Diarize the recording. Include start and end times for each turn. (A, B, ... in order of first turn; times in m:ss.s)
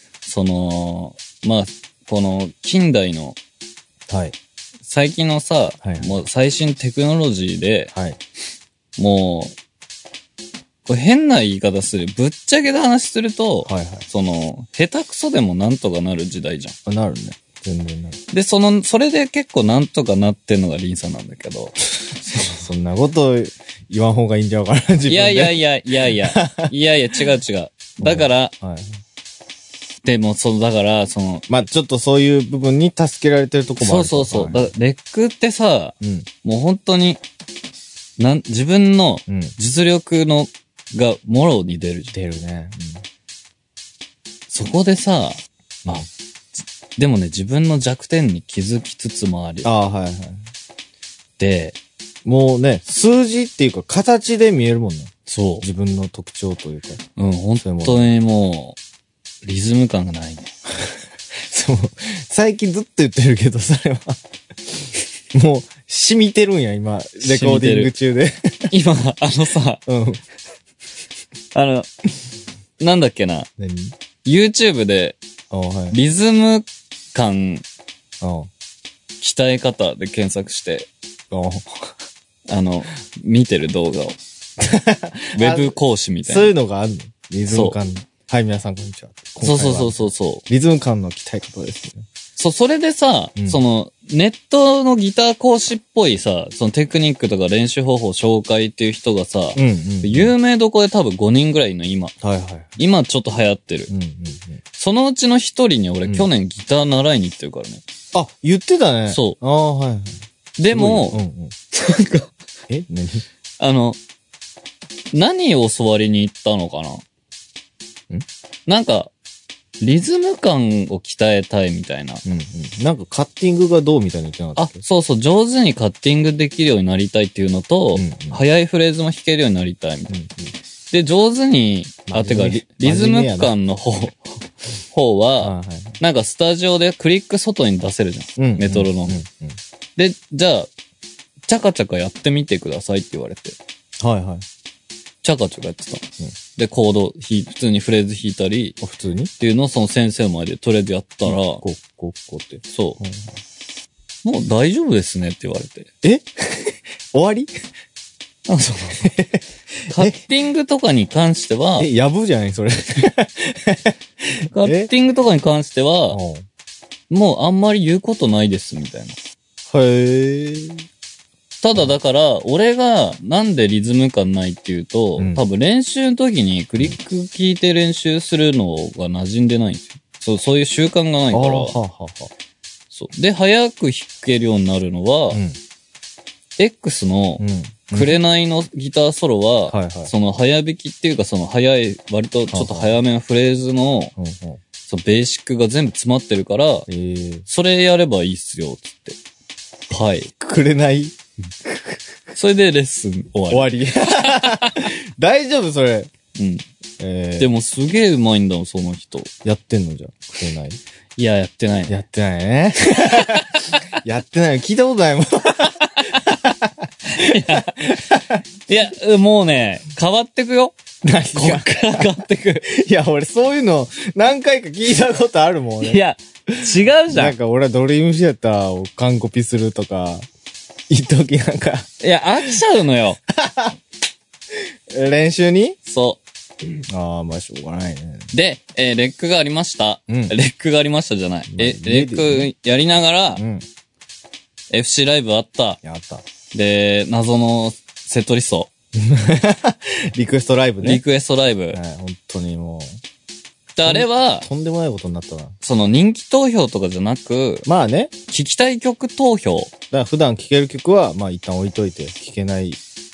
0:00.2-0:03.4 A
0:04.1-0:04.3 B
0:04.8-0:07.9 A
0:05.8-0:06.2 B
0:07.9-0:08.2 B
0:09.0-0:09.6 A
0:10.8-0:16.8 A
0:13.6-0:14.0 B
0:16.8-0:18.2 B
0:18.3-0:22.7 A
0:22.5-0:26.7 B
0:25.1-0:28.5 A
0:28.0-0:29.0 B
0:30.0-0:31.4 A
0:31.5-0:34.7 B
0:33.8-0:37.2 A
0:36.0-0:36.3 B
0:38.2-0:42.2 A
0:39.3-0:39.6 B
0:42.1-0:43.0 B
0:44.5-0:46.1 A
0:47.0-0:49.7 A
0:49.6-0:50.5 B
0:51.4-0:51.8 A
0:52.2-0:57.0 B
0:55.3-0:55.6 A
0:57.2-0:58.8 A
0:57.6-0:58.1 B
0:59.4-1:00.5 A
1:01.4-1:04.2 B
1:05.3-1:08.7 B
1:07.2-1:07.9 A
1:08.7-1:09.8 A
1:09.8-1:10.2 B
1:11.5-1:11.9 A
1:12.8-1:13.5 A
1:13.6-1:13.9 B
1:14.2-1:15.2 A
1:15.5-1:16.0 B
1:15.9-1:17.6 A
1:18.2-1:18.5 B
1:19.2-1:20.9 A
1:21.3-1:21.9 B
1:22.5-1:24.2 A
1:24.6-1:32.0 B
1:25.3-1:26.5 A
1:27.5-1:27.8 A
1:29.4-1:30.4 A
1:32.4-1:42.2 A
1:39.5-1:40.3 B
1:42.2-1:42.8 B
1:42.8-1:43.9 A
1:43.9-1:44.6 B
1:44.8-1:47.8 A
1:48.1-1:51.5 B
1:49.1-1:49.4 A
1:50.6-1:51.2 A
1:51.7-1:52.3 A
1:52.7-1:53.2 B
1:53.6-1:54.0 A
1:55.1-1:57.0 A
1:58.7-1:59.1 A
1:59.8-2:02.2 A
2:02.2-2:04.8 B
2:04.6-2:10.1 A
2:07.9-2:08.4 B
2:10.1-2:10.5 B
2:10.9-2:19.2 A
2:12.1-2:13.5 B
2:15.4-2:16.0 B
2:18.4-2:19.6 B
2:20.0-2:20.7 A
2:21.5-2:23.6 A
2:24.0-2:24.4 B
2:25.2-2:26.0 A
2:26.6-2:28.8 A
2:28.8-2:29.3 B
2:29.4-2:31.6 A
2:31.2-2:33.3 B
2:32.7-2:33.0 A
2:34.2-2:35.9 A
2:36.0-2:37.5 B
2:38.5-2:39.1 A
2:39.0-2:40.2 B
2:39.9-2:41.9 A
2:41.8-2:44.9 B
2:44.5-2:46.2 A
2:46.1-2:46.4 B
2:47.1-2:49.2 A
2:49.7-2:50.8 B
2:51.6-3:01.8 A
2:55.2-2:55.4 B
3:01.3-3:02.3 B
3:02.9-3:05.4 A
3:05.3-3:05.6 B
3:06.6-3:14.1 A
3:07.4-3:08.2 B
3:09.7-3:10.1 B
3:12.5-3:12.9 B
3:14.2-3:14.6 B
3:14.9-3:16.9 A
3:16.9-3:17.4 B
3:17.4-3:19.2 A
3:19.9-3:20.3 A
3:20.4-3:21.1 B
3:22.3-3:24.9 A
3:23.5-3:26.1 B
3:26.4-3:26.6 A
3:27.0-3:27.5 B
3:27.4-3:29.3 A
3:29.4-3:30.8 B
3:31.2-3:32.0 A
3:31.9-3:38.4 B
3:33.0-3:33.8 A
3:36.0-3:36.3 A
3:37.1-3:38.0 A
3:38.7-3:40.8 A
3:41.0-3:46.0 B
3:41.3-3:42.6 A
3:45.8-3:47.4 A
3:47.1-3:50.3 B
3:50.9-3:51.9 B
3:52.0-3:53.2 A
3:53.3-3:53.8 B
3:54.5-3:55.8 B
3:55.8-3:56.2 A
3:56.9-3:58.3 B
3:58.3-4:03.4 A
4:00.1-4:00.3 B
4:01.5-4:02.5 B
4:03.4-4:03.6 B
4:04.7-4:05.8 A
4:05.8-4:06.2 B
4:06.5-4:08.7 A
4:08.9-4:11.0 B
4:10.8-4:11.8 A
4:11.7-4:13.0 B
4:13.7-4:14.5 A
4:13.8-4:15.5 B
4:15.6-4:17.6 A
4:17.6-4:18.1 B
4:18.3-4:19.7 A
4:19.9-4:22.8 B